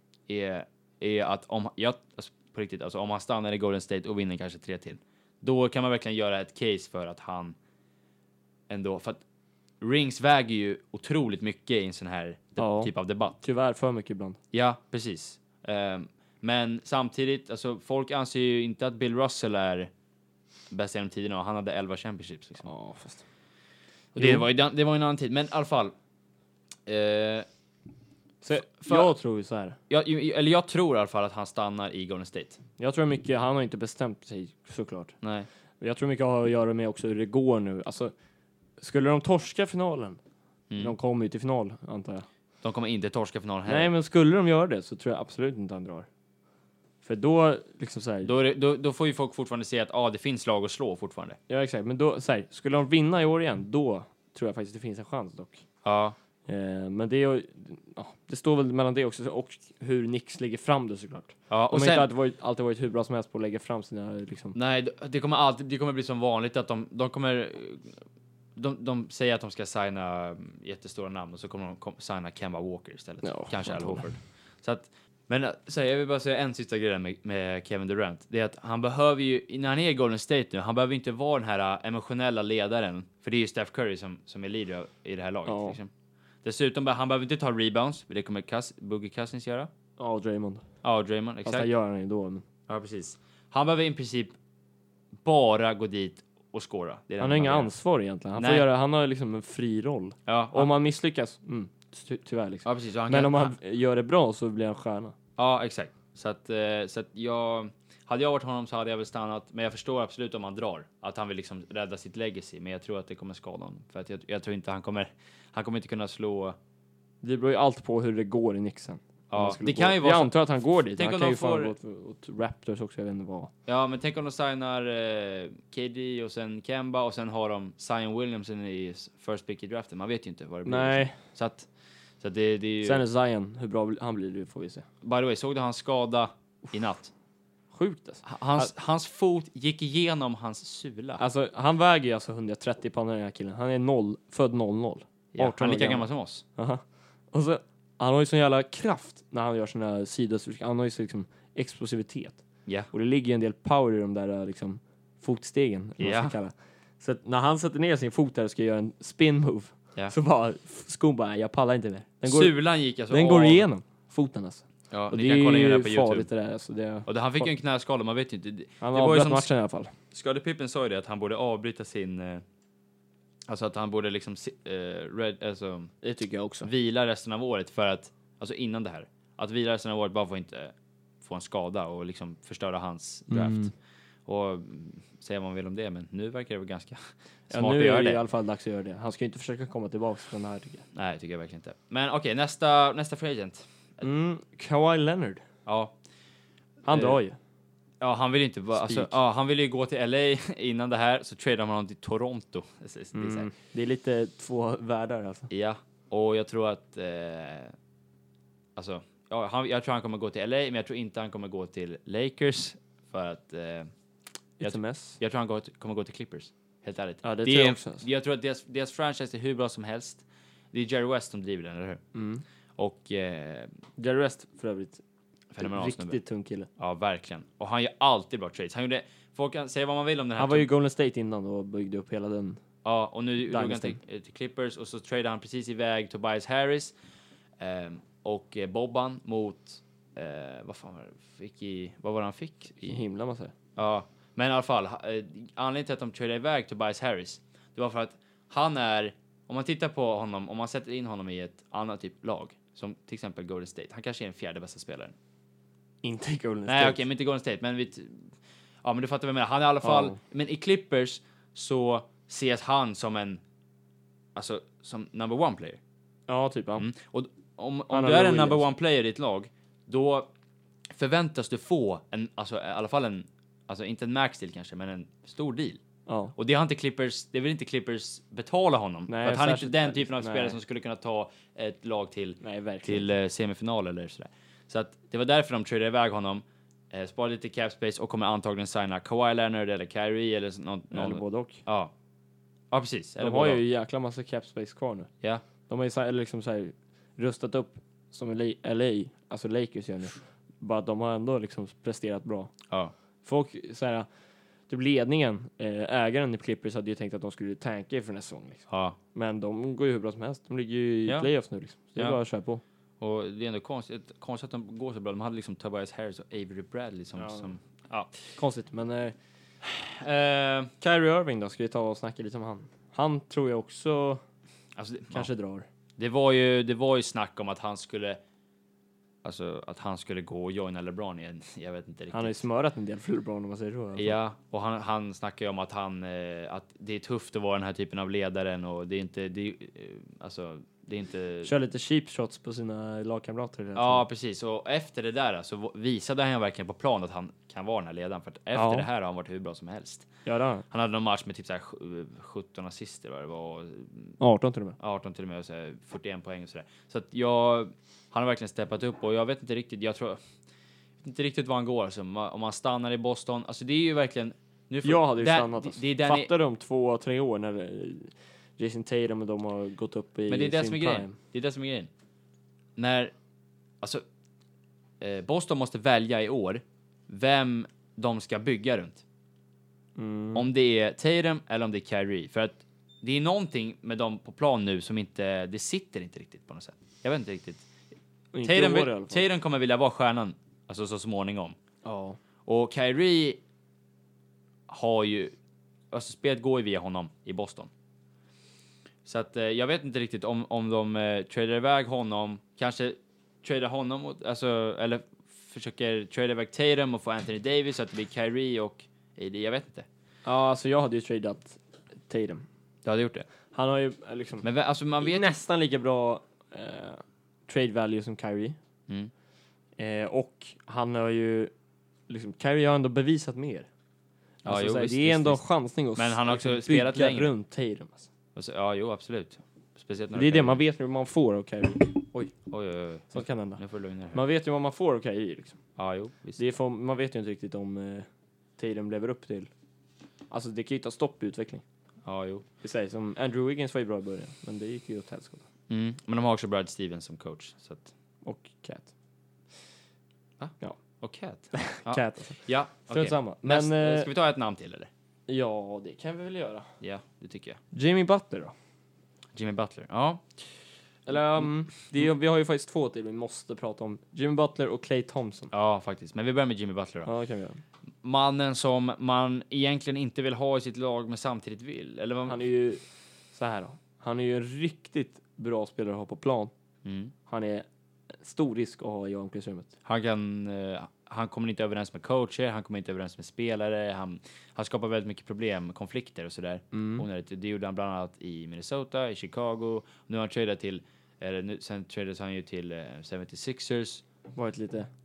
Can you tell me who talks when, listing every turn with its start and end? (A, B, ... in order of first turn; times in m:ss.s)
0:00.3-0:07.6 A
0:08.7-0:09.2 A
0:09.8-0:13.4 A
0:12.6-0:14.4 B
0:14.5-0:19.9 A
0:20.7-0:22.7 A
0:22.6-0:23.2 B
0:24.2-0:24.5 B
0:24.2-0:25.9 A
0:26.9-0:27.5 A
0:28.4-0:29.8 B
0:28.6-0:29.1 A
0:29.9-0:32.6 A
0:32.8-0:35.2 B
0:35.2-0:35.5 A
0:35.8-0:38.1 B
0:38.8-0:40.2 B
0:40.7-0:41.0 A
0:40.8-0:42.3 B
0:42.6-0:43.9 A
0:43.7-0:46.1 B
0:47.0-0:48.3 B
0:48.2-0:51.4 A
0:51.5-0:55.6 B
0:55.8-0:56.2 A
0:56.5-1:04.6 B
1:01.5-1:02.1 A
1:04.5-1:07.9 A
1:08.6-1:25.9 A
1:13.2-1:14.1 B
1:25.5-1:25.8 B
1:26.4-1:29.7 A
1:30.0-1:30.7 B
1:30.8-1:31.7 A
1:31.4-1:32.4 B
1:32.7-1:34.4 A
1:35.2-1:37.7 A
1:37.2-1:45.2 B
1:38.4-1:38.7 A
1:40.3-1:40.7 A
1:42.6-1:43.6 A
1:45.4-1:56.6 A
1:57.2-2:03.5 B
1:59.3-2:00.4 A
2:00.9-2:01.7 A
2:03.7-2:11.7 A
2:10.6-2:11.2 B
2:12.2-2:13.0 A
2:12.8-2:14.9 B
2:15.0-2:17.1 A
2:17.7-2:18.7 B
2:18.2-2:21.2 A
2:21.2-2:42.6 B
2:25.3-2:26.4 A
2:36.0-2:36.4 A
2:42.2-2:43.7 A
2:43.1-2:47.5 B
2:44.9-2:46.3 A
2:47.1-2:49.5 A
2:48.8-2:49.9 B
2:50.1-2:52.4 A
2:53.5-2:55.9 A
2:56.0-2:56.7 B
2:56.6-3:03.7 A
3:03.3-3:03.7 B
3:04.3-3:08.2 A
3:07.5-3:10.8 B
3:10.9-3:14.0 A
3:14.0-3:15.4 B
3:15.7-3:16.0 A
3:16.8-3:17.4 B
3:16.9-3:17.2 A
3:18.0-3:23.5 A
3:18.8-3:19.2 B
3:23.1-3:25.5 B
3:25.5-3:27.7 A
3:28.8-3:33.9 A
3:34.6-3:35.2 B
3:34.6-3:42.0 A
3:37.2-3:38.1 B
3:42.1-3:42.4 B
3:42.8-3:43.7 A
3:44.0-3:45.0 B
3:45.5-3:46.2 A
3:45.6-3:46.7 B
3:46.8-3:50.7 A
3:50.4-3:52.6 B
3:52.8-3:56.9 A
3:53.4-3:54.0 B
3:57.6-4:03.0 A
4:02.8-4:03.5 B
4:03.8-4:15.2 A
4:16.0-4:17.0 B
4:16.7-4:18.3 A
4:18.8-4:23.4 A
4:19.8-4:20.2 B
4:24.4-4:25.8 A
4:26.3-4:26.9 B
4:26.8-4:30.3 A
4:27.9-4:28.6 B
4:30.9-4:35.8 A
4:36.1-4:36.3 B
4:36.4-4:51.9 A
4:39.1-4:40.6 B
4:42.4-4:43.1 B
4:50.9-4:51.6 B
4:52.7-4:53.6 A
4:53.2-4:55.1 B
4:55.7-5:02.5 B
5:03.2-5:04.1 B
5:04.7-5:12.6 B
5:08.7-5:09.0 A
5:12.0-5:12.2 A
5:13.0-5:18.2 A
5:17.2-5:17.5 B
5:18.4-5:19.2 B
5:19.6-5:20.7 A
5:20.8-5:24.2 B
5:24.8-5:25.3 A
5:25.1-5:25.7 B
5:26.0-5:28.2 A
5:29.2-5:32.4 A
5:32.1-5:34.2 B
5:34.0-5:41.5 A
5:41.4-5:44.0 B
5:43.8-5:50.1 A
5:48.5-5:48.9 B
5:50.2-5:50.7 B
5:50.7-5:54.2 A
5:54.2-5:54.8 B
5:54.8-6:00.2 A
6:01.0-6:06.3 A
6:04.8-6:11.2 B
6:10.3-6:11.9 A
6:12.8-6:13.1 A
6:15.0-6:19.0 A
6:20.0-6:20.5 B
6:20.3-6:27.6 A
6:28.3-6:29.3 B
6:28.4-6:31.6 A
6:31.8-6:32.2 B
6:32.5-6:33.4 A
6:34.7-6:35.4 A
6:35.9-6:37.7 A
6:39.0-6:49.9 A
6:50.2-6:52.5 B
6:52.8-6:53.3 A
6:53.5-6:54.5 B
6:54.4-6:55.4 A
6:55.0-6:58.6 B
6:59.8-7:01.5 B
7:02.1-7:03.7 B
7:04.4-7:05.4 A
7:04.4-7:08.1 B
7:06.0-7:07.3 A
7:08.4-7:10.6 A
7:10.1-7:12.3 B
7:12.5-7:14.2 A
7:13.1-7:15.6 B
7:15.8-7:16.4 A
7:16.4-7:18.1 B
7:18.6-7:19.5 B
7:20.3-7:21.6 B
7:22.0-7:22.5 A
7:22.6-7:25.4 B
7:25.7-7:27.9 A
7:28.2-7:28.9 B
7:30.4-7:34.9 A
7:31.5-7:34.1 B
7:35.3-7:36.7 B
7:36.8-7:37.6 A
7:37.7-7:38.5 B
7:39.4-7:40.2 A
7:41.1-7:45.5 B
7:41.1-7:41.5 A
7:45.5-7:47.1 A
7:47.0-7:47.6 B
7:48.0-7:52.4 A
7:52.3-7:56.5 B
7:56.8-7:57.1 A
7:57.3-7:57.7 B
7:58.2-7:59.7 B
7:59.8-8:14.0 A
8:06.7-8:07.1 B
8:14.4-8:14.9 B